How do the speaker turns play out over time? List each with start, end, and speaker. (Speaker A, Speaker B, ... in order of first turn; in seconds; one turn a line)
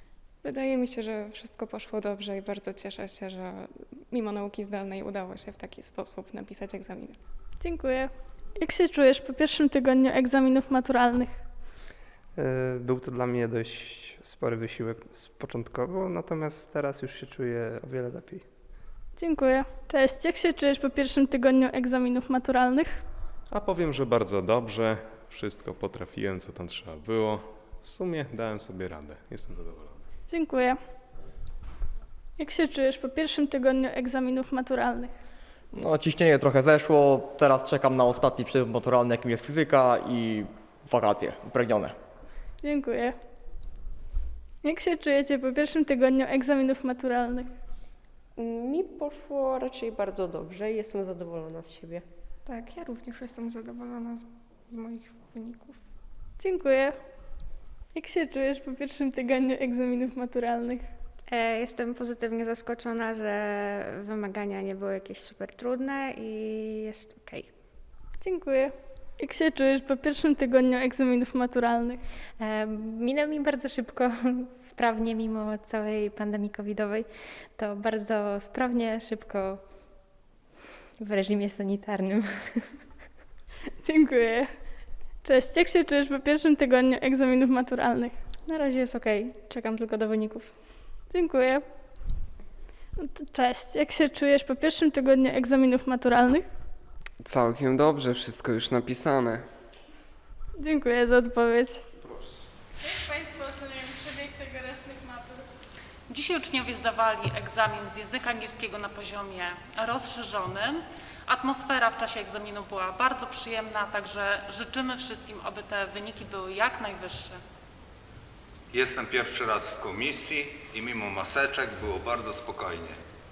Speaker A: 0.4-7.2
Speaker B: 7.6-11.4
Speaker C: 12.4-18.4
Speaker B: 19.2-23.0
Speaker D: 23.5-30.0
Speaker B: 30.3-30.8
Speaker B: 32.4-35.1
Speaker E: 35.8-41.9
Speaker B: 42.6-43.1
Speaker B: 44.6-47.5
Speaker F: 48.4-52.0
Speaker A: 52.5-55.8
Speaker B: 56.4-56.9
Speaker B: 57.9-60.8
Speaker G: 61.3-67.5
Speaker B: 68.2-72.0
Speaker H: 72.4-79.6
Speaker H: 81.0-82.7
Speaker B: 83.8-84.5
Speaker B: 85.2-88.2
Speaker A: 88.5-90.5
Speaker B: 91.1-91.6
Speaker B: 93.0-96.4
Speaker I: 97.2-99.5
Speaker B: 100.6-101.8
Speaker B: 102.8-105.4
Speaker J: 106.1-117.4
Speaker K: 118.7-123.0